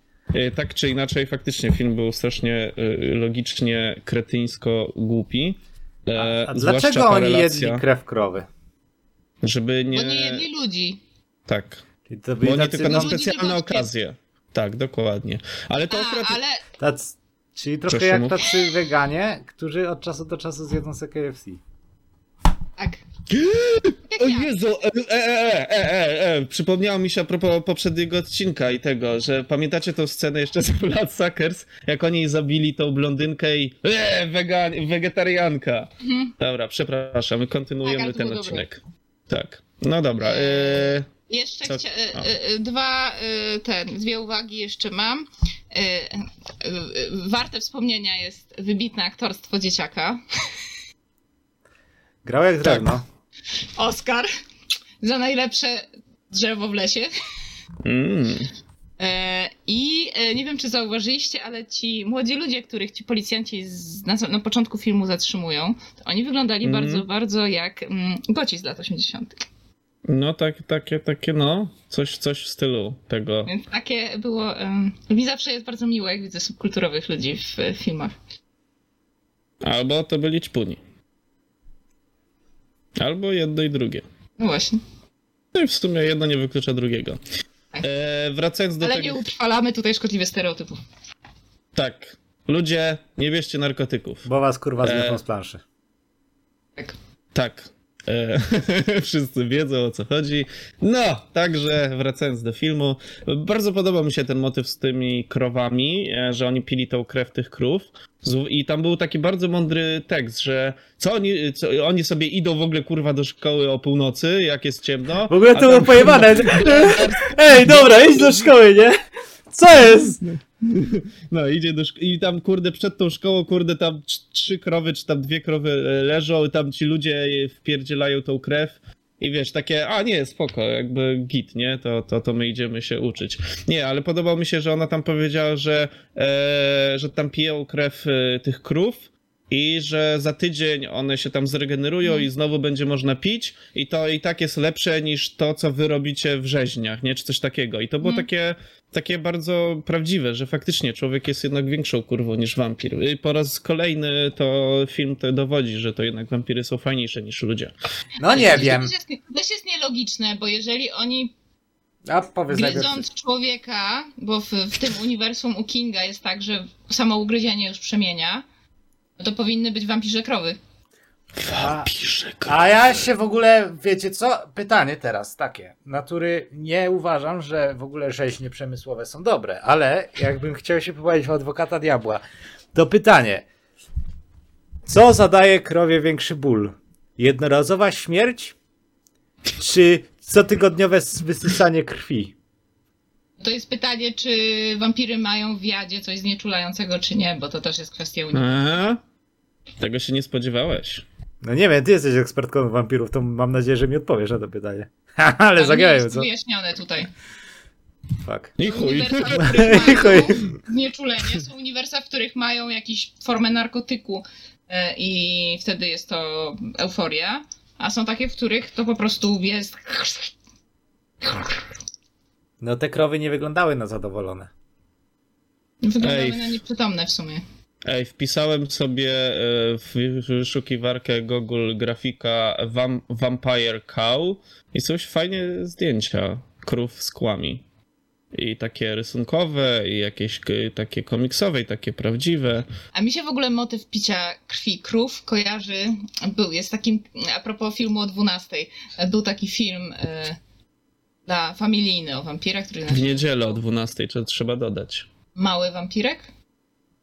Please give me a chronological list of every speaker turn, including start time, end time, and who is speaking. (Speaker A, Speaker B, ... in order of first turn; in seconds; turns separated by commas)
Speaker A: 0.3-7.8, Speaker B: 6.2-8.5, Speaker A: 9.4-10.4, Speaker C: 9.9-11.0, Speaker A: 11.5-11.8, Speaker B: 12.1-13.2, Speaker A: 12.4-16.4, Speaker C: 12.8-13.9, Speaker C: 15.9-16.6, Speaker B: 16.8-21.6, Speaker A: 17.9-18.6, Speaker C: 22.8-23.0, Speaker A: 23.3-41.1, Speaker C: 24.1-24.5, Speaker C: 36.0-36.3, Speaker C: 37.8-38.6, Speaker C: 40.2-50.2, Speaker A: 41.6-42.2, Speaker B: 52.2-53.0, Speaker A: 52.6-52.9, Speaker C: 53.8-54.3, Speaker C: 55.0-57.1, Speaker A: 57.8-58.5, Speaker C: 59.0-69.4, Speaker A: 66.6-67.0, Speaker A: 70.0-73.5, Speaker C: 73.5-78.1, Speaker A: 79.6-80.8, Speaker A: 83.0-84.0, Speaker C: 84.4-84.8, Speaker A: 85.5-87.2, Speaker A: 87.8-89.2, Speaker C: 88.8-90.8, Speaker A: 91.8-94.2, Speaker B: 94.2-95.6, Speaker A: 94.8-95.2, Speaker A: 97.3-118.5, Speaker B: 115.3-119.0, Speaker B: 119.5-120.2, Speaker A: 120.0-157.7, Speaker B: 158.2-158.9, Speaker C: 158.2-161.3, Speaker B: 162.1-163.0, Speaker C: 162.5-168.4, Speaker C: 169.2-170.6, Speaker A: 171.3-172.6, Speaker B: 171.6-171.9, Speaker B: 172.4-182.2, Speaker B: 182.7-183.4, Speaker B: 184.9-188.5, Speaker B: 189.6-192.3, Speaker C: 193.4-198.6, Speaker A: 198.3-199.0, Speaker A: 199.8-201.0, Speaker B: 201.4-206.3, Speaker C: 205.6-207.1, Speaker B: 208.2-208.6, Speaker A: 208.6-210.4, Speaker C: 208.6-220.3, Speaker B: 209.4-210.5, Speaker C: 221.2-221.7, Speaker B: 222.6-224.5, Speaker C: 225.8-227.4, Speaker A: 226.0-226.6, Speaker A: 227.8-237.6, Speaker A: 238.3-242.7, Speaker C: 242.9-250.4, Speaker C: 251.2-253.5, Speaker A: 252.9-255.1, Speaker C: 255.4-256.3